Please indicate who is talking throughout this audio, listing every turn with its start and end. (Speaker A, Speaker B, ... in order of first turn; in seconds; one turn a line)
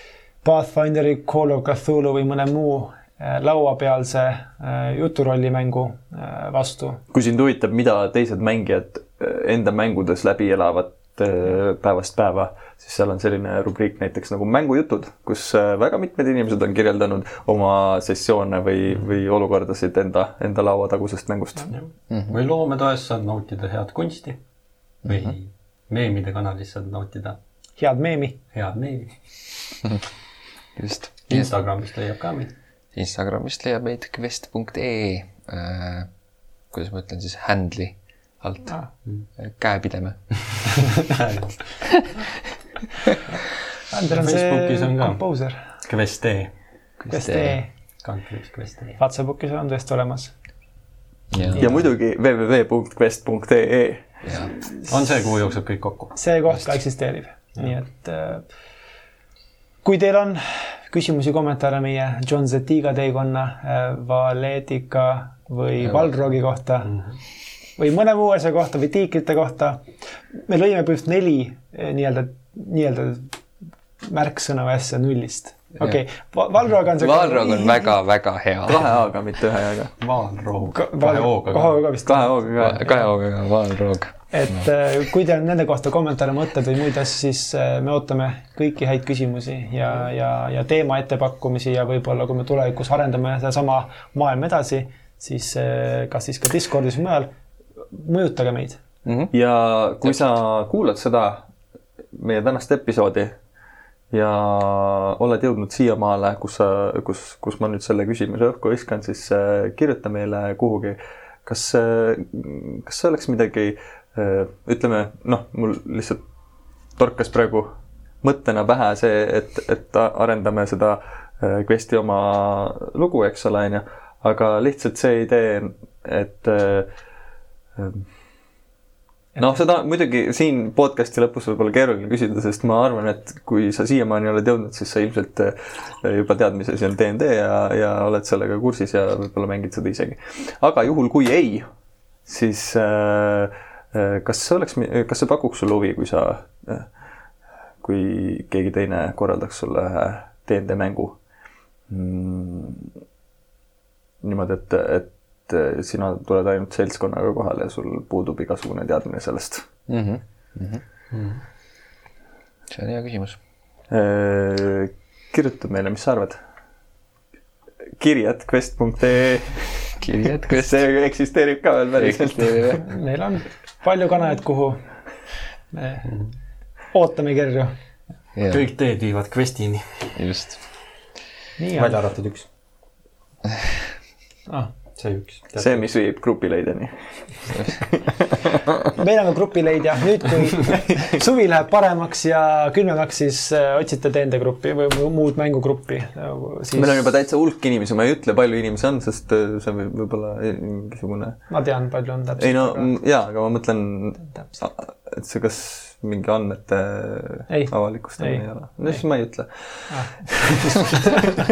Speaker A: 0.4-7.0
Speaker B: 7.1-21.7
Speaker C: 21.7-24.4
Speaker D: 22.1-22.4
Speaker C: 25.0-27.4
Speaker D: 25.1-25.3
Speaker A: 27.8-28.4
Speaker C: 28.5-29.2
Speaker D: 30.8-31.5
Speaker C: 31.3-32.5
Speaker D: 33.0-36.1
Speaker D: 36.7-40.9
Speaker C: 41.1-41.8
Speaker A: 43.9-45.6
Speaker C: 44.1-46.5
Speaker D: 47.0-47.6
Speaker A: 47.1-47.7
Speaker C: 48.0-49.0
Speaker A: 49.0-50.4
Speaker D: 51.3-51.6
Speaker B: 51.6-54.2
Speaker D: 54.2-54.5
Speaker C: 54.8-56.1
Speaker A: 56.1-58.5
Speaker A: 59.8-67.0
Speaker D: 65.8-66.1
Speaker A: 67.8-73.4
Speaker A: 74.1-77.9
Speaker D: 77.0-78.8
Speaker B: 78.7-79.9
Speaker C: 80.0-81.8
Speaker A: 80.7-82.9
Speaker B: 82.1-82.9
Speaker D: 82.6-84.7
Speaker A: 84.3-97.3
Speaker A: 97.9-98.8
Speaker D: 99.0-99.3
Speaker B: 99.3-101.5
Speaker B: 102.1-103.3
Speaker B: 104.1-116.2
Speaker B: 117.0-117.7
Speaker B: 118.2-126.9
Speaker B: 127.8-128.1
Speaker B: 129.4-141.7
Speaker B: 142.3-146.9
Speaker B: 147.8-151.2
Speaker B: 151.9-152.9
Speaker B: 154.2-159.7
Speaker D: 159.9-160.8
Speaker C: 161.1-161.4
Speaker D: 162.7-163.4
Speaker B: 163.9-166.4
Speaker B: 168.0-170.0
Speaker D: 170.0-170.8
Speaker B: 170.5-172.8
Speaker D: 172.0-172.9
Speaker A: 172.8-175.0
Speaker A: 175.7-176.1
Speaker A: 176.9-177.7
Speaker D: 178.3-178.6
Speaker C: 178.5-180.2
Speaker D: 180.2-180.6
Speaker A: 181.6-182.0
Speaker C: 181.8-182.5
Speaker C: 185.0-185.8
Speaker B: 185.6-187.9
Speaker A: 188.9-197.1
Speaker B: 196.7-201.5
Speaker A: 201.5-202.9
Speaker B: 202.4-211.1
Speaker A: 207.5-209.0
Speaker A: 209.9-210.8